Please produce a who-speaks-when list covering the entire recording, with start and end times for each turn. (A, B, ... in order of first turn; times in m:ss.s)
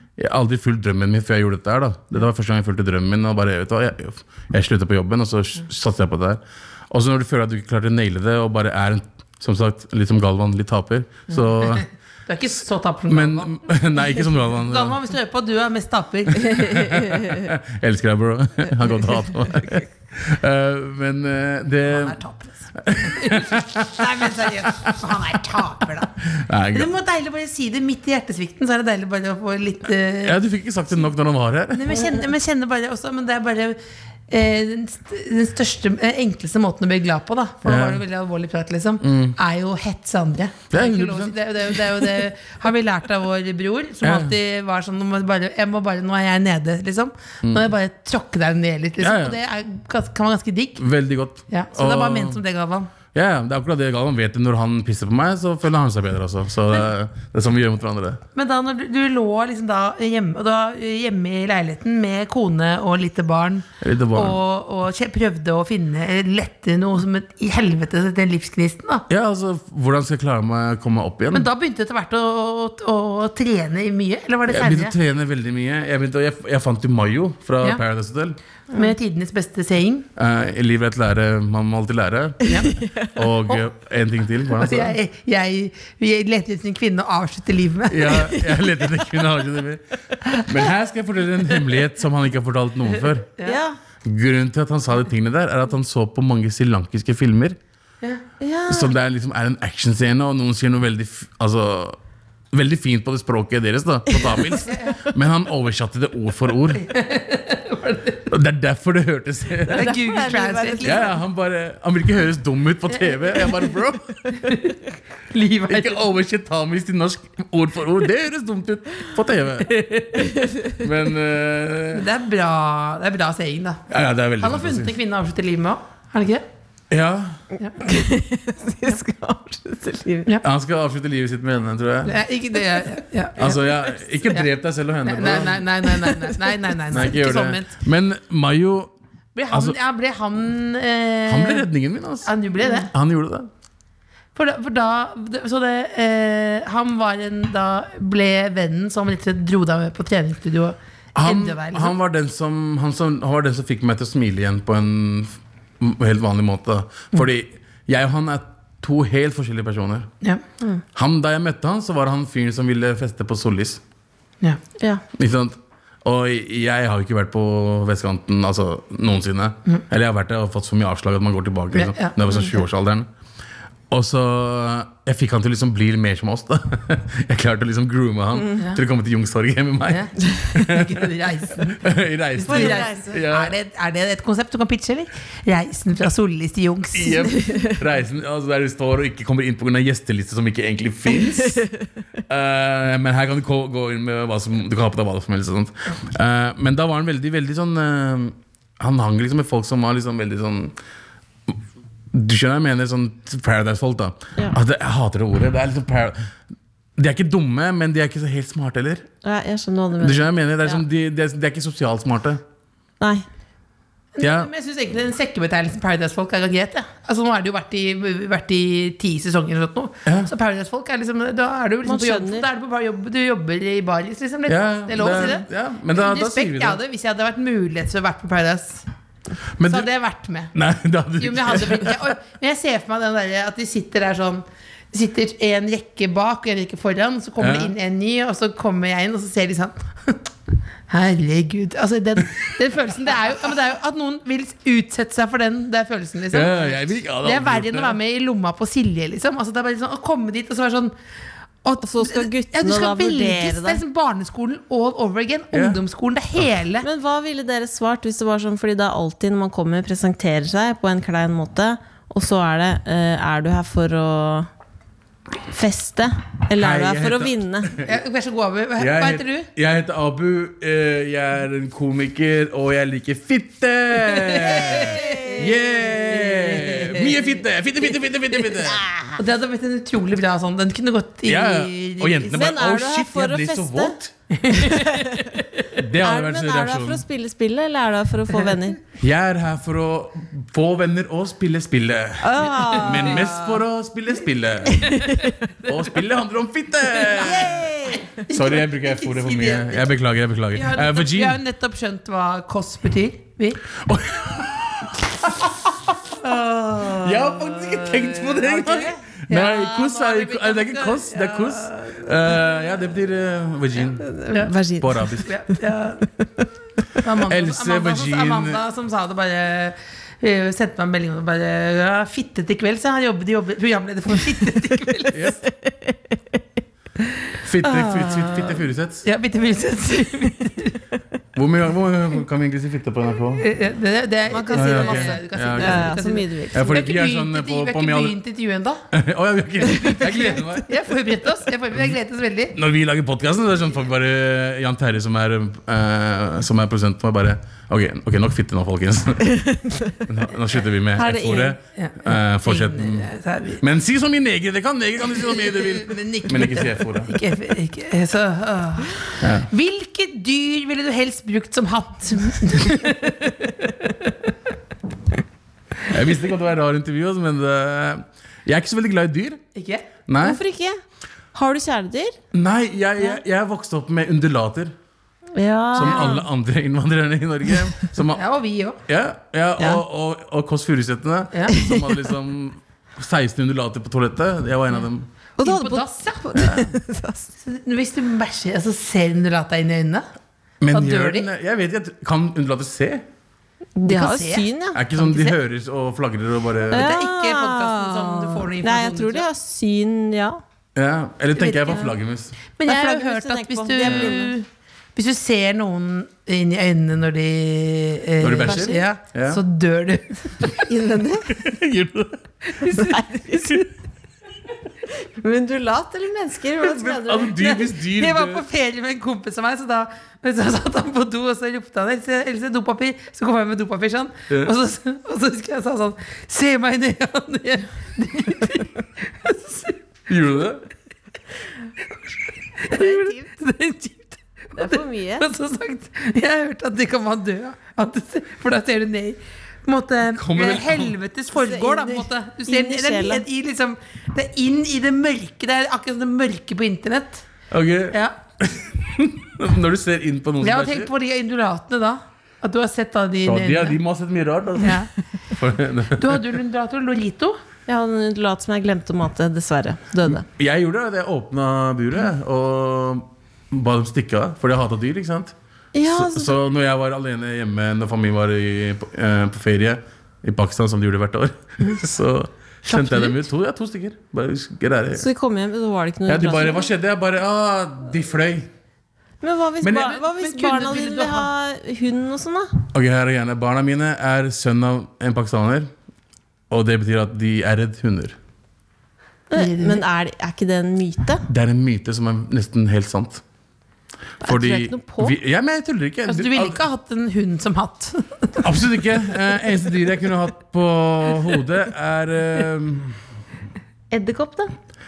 0:00.2-0:11.9 A
0:11.3-0:16.9 B
0:13.1-0:15.0 A
0:16.3-0:22.2 A
0:21.8-0:26.1 B
0:22.8-0:24.9 A
0:26.3-0:26.9 A
0:26.7-0:30.4 B
0:30.2-0:32.0 A
0:31.7-0:50.8 B
0:37.6-0:38.0 A
0:39.0-0:39.4 A
0:40.7-0:42.2 A
0:44.0-0:44.4 A
0:47.4-0:47.7 A
0:49.0-0:49.4 A
0:50.8-0:52.4 A
0:51.5-0:52.9 B
0:53.1-0:58.2 A
0:58.3-1:09.0 B
1:03.8-1:04.4 A
1:09.1-1:11.5 A
1:11.3-1:14.9 B
1:14.5-1:18.4 A
1:18.7-1:20.1 B
1:20.2-1:25.0 A
1:22.4-1:22.8 B
1:22.7-1:23.1 C
1:24.6-1:28.3 B
1:27.9-1:33.3 A
1:33.4-1:33.6 B
1:33.4-1:33.8 C
1:34.0-1:37.6 A
1:38.4-1:38.9 C
1:38.7-1:42.0 A
1:42.5-1:46.9 A
1:44.6-1:45.0 B
1:46.8-1:48.3 B
1:48.3-1:49.9 A
1:49.7-1:51.1 C
1:49.7-1:51.1 B
1:50.8-1:54.2 A
1:53.0-1:53.5 B
1:54.3-1:54.8 B
1:55.3-1:56.0 B
1:55.7-2:02.1 A
2:01.9-2:03.8 B
2:03.9-2:04.9 A
2:04.4-2:06.4 B
2:06.9-2:07.4 A
2:07.8-2:10.3 C
2:10.4-2:12.2 A
2:12.0-2:14.5 B
2:13.4-2:15.7 A
2:15.0-2:17.7 B
2:15.9-2:16.4 C
2:16.9-2:18.9 A
2:19.3-2:21.6 B
2:19.5-2:19.8 A
2:21.2-2:23.5 A
2:22.2-2:22.9 B
2:24.3-2:31.9 B
2:31.2-2:40.1 A
2:40.9-2:43.8 A
2:45.1-2:53.1 A
2:51.7-2:52.2 B
2:53.9-3:01.0 A
2:59.9-3:01.8 B
3:01.7-3:03.5 A
3:02.4-3:07.4 B
3:02.4-3:03.2 C
3:06.9-3:11.7 A
3:07.3-3:07.8 C
3:11.5-3:11.8 C
3:12.3-3:20.8 A
3:22.1-3:26.2 A
3:27.0-3:29.1 A
3:29.2-3:30.8 C
3:30.0-3:32.4 A
3:34.2-3:48.8 B
3:34.2-3:34.5 A
3:40.0-3:40.3 A
3:41.8-3:42.5 C
3:44.5-3:46.8 A
3:49.6-3:49.9 A
3:49.6-3:50.5 B
3:50.5-3:52.1 A
3:51.2-4:00.2 B
3:57.4-3:57.7 A
4:00.9-4:10.9 B
4:06.3-4:08.0 A
4:11.6-4:16.9 B
4:11.8-4:13.8 C
4:15.5-4:15.8 A
4:16.8-4:24.5 C
4:25.5-4:27.8 C
4:26.6-4:27.9 A
4:27.8-4:29.5 B
4:28.8-4:38.9 A
4:34.1-4:37.4 B
4:34.4-4:35.5 C
4:39.2-4:42.4 B
4:41.2-4:44.1 A
4:42.3-4:44.0 C
4:44.3-4:45.3 B
4:44.5-4:45.4 C
4:45.7-4:47.0 A
4:46.0-4:48.8 C
4:49.0-4:55.1 A
4:52.2-4:53.3 C
4:52.5-4:53.4 B
4:54.7-4:55.4 C
4:55.6-4:57.7 A
4:57.1-4:59.9 B
4:57.2-4:58.2 C
4:58.2-5:01.4 A
5:00.5-5:03.6 B
5:03.7-5:05.9 A
5:06.1-5:12.0 B
5:06.8-5:14.1 A
5:14.0-5:15.2 C
5:14.8-5:15.3 A
5:15.2-5:16.1 B
5:17.0-5:25.2 B
5:17.2-5:18.6 A
5:25.1-5:25.4 A
5:25.4-5:26.4 C
5:27.4-5:29.0 A
5:27.6-5:28.6 C
5:29.0-5:30.8 B
5:31.3-5:33.4 A
5:33.4-5:38.8 B
5:34.3-5:36.8 C
5:34.5-5:35.9 A
5:36.5-5:38.2 A
5:38.9-5:40.8 A
5:39.7-5:42.5 B
5:42.5-5:49.4 A
5:49.2-5:50.0 C
5:50.0-5:57.1 A
5:50.9-5:51.6 C
5:51.8-5:53.6 B
5:55.1-6:04.1 B
5:59.2-5:59.5 A
6:05.9-6:09.4 A
6:09.5-6:09.9 B
6:10.1-6:10.4 A
6:10.2-6:10.8 C
6:11.3-6:12.2 C
6:12.3-6:14.7 A
6:15.3-6:16.2 C
6:15.7-6:18.2 A
6:15.8-6:16.1 B
6:18.1-6:18.8 B
6:18.9-6:25.1 A
6:21.5-6:21.9 C
6:25.4-6:27.3 C
6:25.4-6:26.6 B
6:26.4-6:26.6 A
6:27.4-6:30.1 B
6:30.6-6:33.0 A
6:30.7-6:31.3 B
6:33.8-6:34.8 C
6:33.8-6:35.4 B
6:34.7-6:36.9 A
6:36.7-6:39.3 B
6:36.7-6:40.4 C
6:40.7-6:42.3 A
6:41.4-6:41.9 B
6:42.6-6:50.6 B
6:42.6-6:44.3 C
6:43.8-6:44.1 A
6:48.2-6:49.4 A
6:48.4-6:48.8 C
6:50.6-6:51.3 C
6:51.3-6:52.2 A
6:52.6-6:53.0 B
6:52.6-6:53.7 C
6:54.9-6:57.5 C
6:56.6-6:58.4 A
6:57.3-7:09.8 B
7:10.1-7:10.6 A
7:12.6-7:27.2 B
7:12.7-7:13.3 C
7:14.6-7:15.3 C
7:20.1-7:21.0 A
7:21.3-7:23.2 C
7:27.5-7:30.9 A
7:27.9-7:28.2 B
7:30.4-7:33.8 B
7:33.2-7:36.4 A
7:34.6-7:34.9 B
7:35.9-7:37.4 B
7:37.7-7:40.2 C
7:40.1-7:55.0 A
7:45.7-7:46.4 C
7:52.7-7:53.2 B
7:54.9-7:56.7 C
7:56.1-7:58.5 A
7:59.2-8:02.5 C
7:59.6-7:59.9 A
7:59.7-8:01.3 B
8:02.7-8:05.7 A
8:06.5-8:08.2 A
8:09.3-8:11.2 C
8:09.3-8:09.8 B
8:11.3-8:13.2 A
8:14.2-8:16.6 A
8:14.2-8:15.2 C
8:16.0-8:18.5 B
8:18.4-8:23.0 A
8:23.9-8:24.5 C